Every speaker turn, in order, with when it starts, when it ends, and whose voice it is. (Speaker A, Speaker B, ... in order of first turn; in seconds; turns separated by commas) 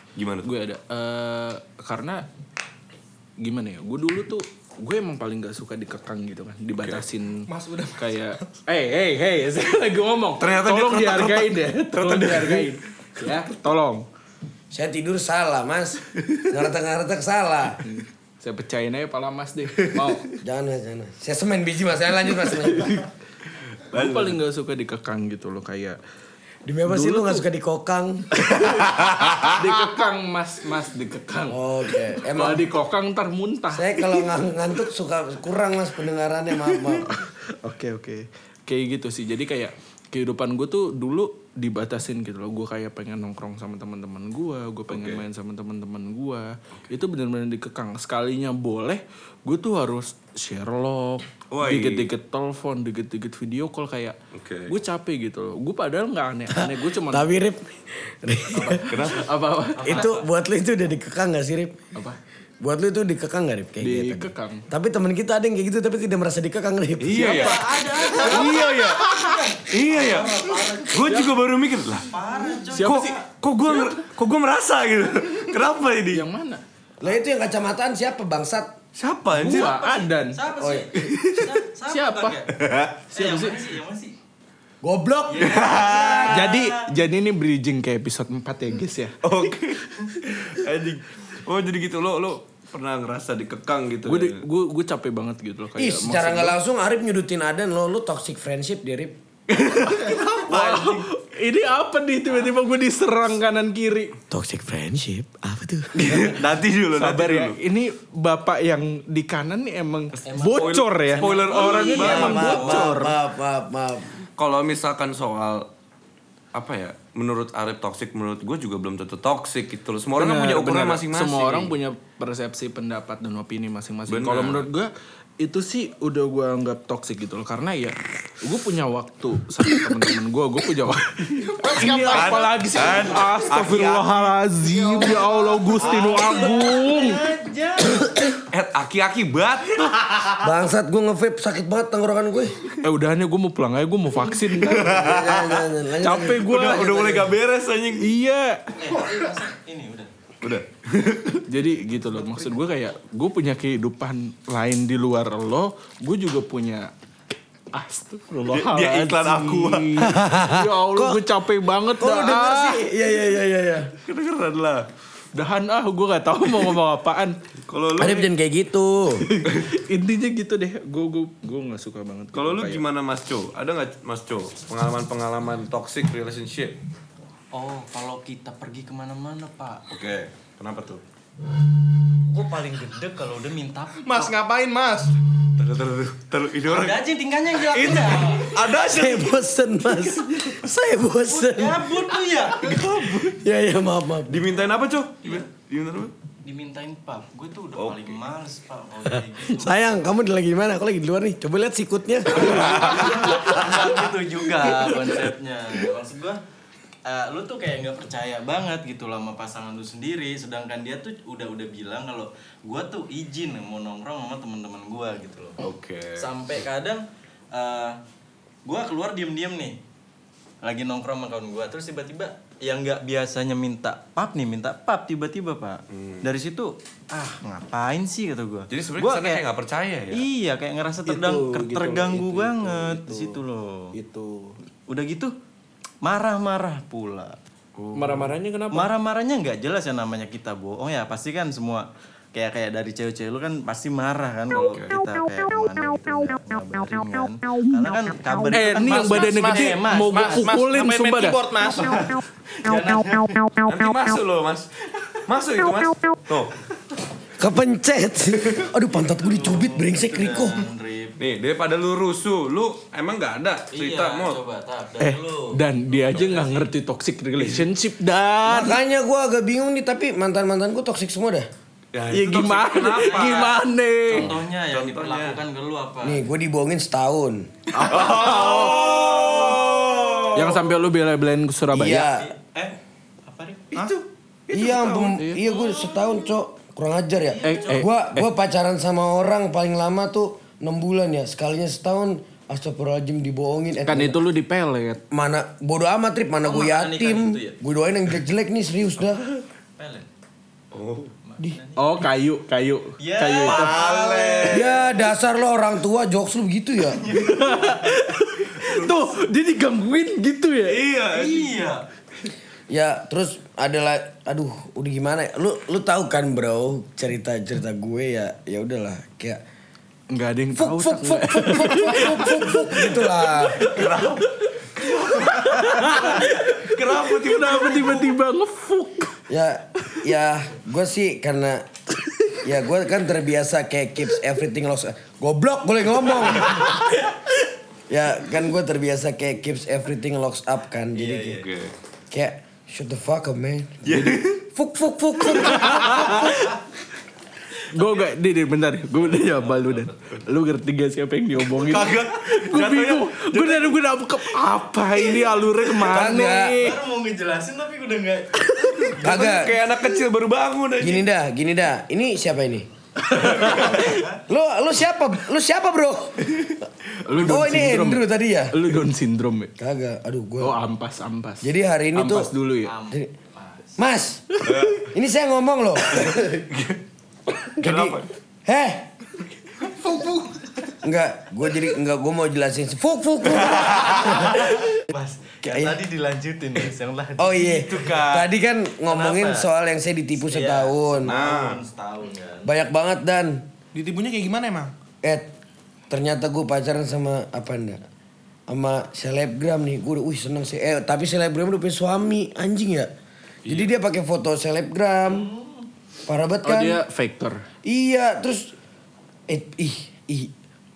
Speaker A: 0.2-0.5, Speaker B: 0.4-2.3, Speaker B: 3.4-14.1, Speaker A: 6.8-7.0, Speaker C: 7.5-8.5, Speaker A: 10.4-12.7, Speaker D: 14.7-17.9, Speaker B: 17.9-20.3, Speaker D: 20.4-23.0, Speaker B: 23.9-26.0, Speaker D: 26.6-28.4, Speaker B: 26.9-27.4, Speaker A: 28.4-29.6, Speaker B: 29.4-34.2, Speaker D: 31.5-32.7, Speaker D: 33.7-37.1, Speaker B: 36.7-54.2, Speaker A: 44.9-45.2, Speaker A: 51.5-52.1, Speaker A: 54.3-54.7, Speaker B: 54.7-57.3, Speaker D: 56.5-59.0, Speaker B: 58.5-60.1, Speaker A: 58.9-59.3, Speaker E: 59.8-60.3, Speaker D: 59.8-61.8, Speaker D: 62.6-67.5, Speaker B: 63.8-64.7, Speaker A: 67.0-69.1, Speaker B: 67.2-67.5, Speaker E: 67.2-71.3, Speaker B: 68.1-69.3, Speaker A: 69.7-72.1, Speaker B: 71.0-71.3, Speaker E: 72.1-73.2, Speaker B: 72.3-73.2, Speaker A: 72.8-76.2, Speaker B: 76.1-76.6, Speaker D: 77.0-78.8, Speaker A: 79.0-79.8, Speaker B: 79.3-80.4, Speaker E: 79.4-82.5, Speaker D: 80.6-80.9, Speaker B: 81.1-82.4, Speaker A: 82.6-83.0, Speaker B: 83.1-83.7, Speaker E: 83.1-84.2, Speaker D: 84.8-86.1, Speaker E: 85.3-86.8, Speaker A: 85.4-86.3, Speaker B: 86.2-89.2, Speaker A: 89.2-94.4, Speaker B: 94.1-96.6, Speaker D: 95.8-99.2, Speaker B: 99.5-104.1, Speaker A: 100.4-101.1, Speaker D: 104.3-106.1, Speaker A: 106.0-107.6, Speaker E: 106.1-106.7, Speaker B: 106.9-113.2, Speaker E: 110.2-112.8, Speaker A: 110.4-112.9, Speaker D: 112.0-114.2, Speaker A: 114.4-115.7, Speaker A: 116.5-121.7, Speaker B: 120.2-137.2, Speaker A: 124.1-124.7, Speaker C: 131.7-132.5, Speaker A: 131.8-134.3, Speaker C: 134.6-136.6, Speaker E: 135.8-138.1, Speaker A: 138.5-140.5, Speaker D: 140.4-142.7, Speaker B: 142.8-145.1, Speaker A: 144.6-145.7, Speaker D: 144.8-146.4, Speaker B: 146.0-147.3, Speaker A: 146.2-148.1, Speaker B: 148.0-148.7, Speaker E: 148.8-150.1, Speaker A: 150.4-151.4, Speaker B: 151.5-156.9, Speaker B: 157.7-162.8, Speaker A: 158.5-160.1, Speaker D: 160.0-161.2, Speaker D: 162.0-163.9, Speaker A: 164.0-164.9, Speaker B: 165.3-167.4, Speaker A: 167.7-168.3, Speaker D: 168.0-169.3, Speaker B: 169.3-172.8, Speaker A: 172.3-176.8, Speaker E: 177.5-179.8, Speaker A: 179.9-181.0, Speaker E: 182.2-184.4, Speaker C: 184.0-185.2, Speaker A: 185.4-189.4, Speaker E: 186.7-188.6, Speaker D: 188.8-192.0, Speaker A: 189.9-190.3, Speaker E: 191.3-193.4, Speaker D: 193.0-194.5, Speaker A: 194.3-196.1, Speaker E: 196.4-199.9, Speaker A: 197.8-198.2, Speaker D: 199.5-203.4, Speaker E: 202.3-206.4, Speaker A: 202.4-203.6, Speaker E: 207.1-215.7, Speaker A: 215.6-216.3, Speaker E: 216.2-218.0, Speaker E: 218.7-219.8, Speaker E: 220.6-229.4, Speaker A: 225.9-226.3, Speaker A: 228.7-230.3, Speaker E: 230.1-233.9, Speaker B: 231.1-233.4, Speaker B: 233.9-234.6, Speaker E: 234.9-235.3, Speaker E: 236.0-237.4, Speaker A: 237.8-238.3, Speaker B: 237.9-238.9, Speaker E: 238.7-250.4, Speaker A: 244.5-244.9, Speaker B: 248.5-251.4, Speaker C: 248.8-252.1, Speaker E: 251.8-253.4, Speaker A: 253.7-254.7, Speaker A: 255.2-256.6, Speaker D: 257.4-260.7, Speaker E: 258.9-261.1, Speaker A: 261.2-264.4, Speaker E: 263.7-266.7, Speaker B: 265.0-268.8, Speaker D: 268.4-271.5, Speaker A: 271.9-273.6, Speaker B: 272.1-274.3, Speaker E: 273.1-273.5, Speaker E: 274.1-276.2, Speaker A: 274.1-275.4, Speaker D: 276.0-277.7, Speaker B: 277.8-278.8, Speaker A: 277.8-280.6, Speaker E: 277.9-280.5, Speaker B: 280.3-282.1, Speaker D: 281.7-282.3, Speaker E: 282.2-283.9, Speaker A: 283.7-285.2, Speaker D: 284.5-294.2, Speaker B: 285.2-285.4, Speaker E: 285.5-286.0, Speaker E: 287.4-287.9, Speaker B: 287.4-288.2, Speaker B: 293.8-295.0, Speaker D: 295.1-299.2, Speaker E: 296.4-297.6, Speaker E: 299.8-300.1, Speaker A: 300.7-301.1, Speaker E: 301.2-301.9, Speaker B: 301.8-303.8, Speaker E: 303.0-305.1, Speaker A: 303.4-304.8, Speaker D: 304.5-307.1, Speaker E: 307.1-307.8, Speaker B: 307.1-310.8, Speaker A: 310.7-311.6, Speaker E: 311.0-311.9, Speaker D: 312.7-319.4, Speaker B: 320.1-329.1, Speaker D: 320.6-323.7, Speaker A: 323.7-328.1, Speaker D: 329.3-331.7, Speaker D: 332.4-337.0, Speaker D: 337.9-341.4, Speaker E: 340.9-341.4, Speaker A: 341.4-341.7, Speaker D: 342.1-346.5, Speaker A: 343.8-344.4, Speaker B: 345.7-346.2, Speaker B: 347.7-356.8, Speaker E: 349.1-350.0, Speaker A: 351.5-353.7, Speaker D: 355.9-356.6, Speaker E: 356.6-359.8, Speaker A: 359.0-361.1, Speaker D: 359.0-359.6, Speaker D: 360.8-366.6, Speaker B: 363.1-363.8, Speaker A: 363.3-363.9, Speaker B: 367.1-369.5, Speaker D: 367.2-368.7, Speaker D: 369.6-370.6, Speaker B: 370.4-372.8, Speaker D: 371.4-372.3, Speaker E: 372.6-373.7, Speaker D: 373.8-376.4, Speaker A: 374.4-374.9, Speaker A: 375.9-376.8, Speaker D: 377.4-378.9, Speaker A: 377.6-378.1, Speaker C: 379.6-380.4, Speaker D: 380.8-384.6, Speaker A: 383.3-384.2, Speaker E: 383.8-388.1, Speaker D: 385.4-385.8, Speaker D: 387.2-391.2, Speaker A: 387.8-388.3, Speaker E: 388.9-389.5, Speaker E: 390.2-392.5, Speaker A: 391.0-391.6, Speaker D: 392.4-393.5, Speaker C: 393.7-394.7, Speaker D: 395.0-395.3, Speaker D: 395.9-397.8, Speaker D: 398.5-402.9, Speaker A: 403.4-403.7, Speaker D: 403.5-405.3, Speaker E: 405.1-405.7, Speaker D: 406.1-406.8, Speaker B: 406.4-407.5, Speaker D: 407.6-408.6, Speaker D: 409.3-410.3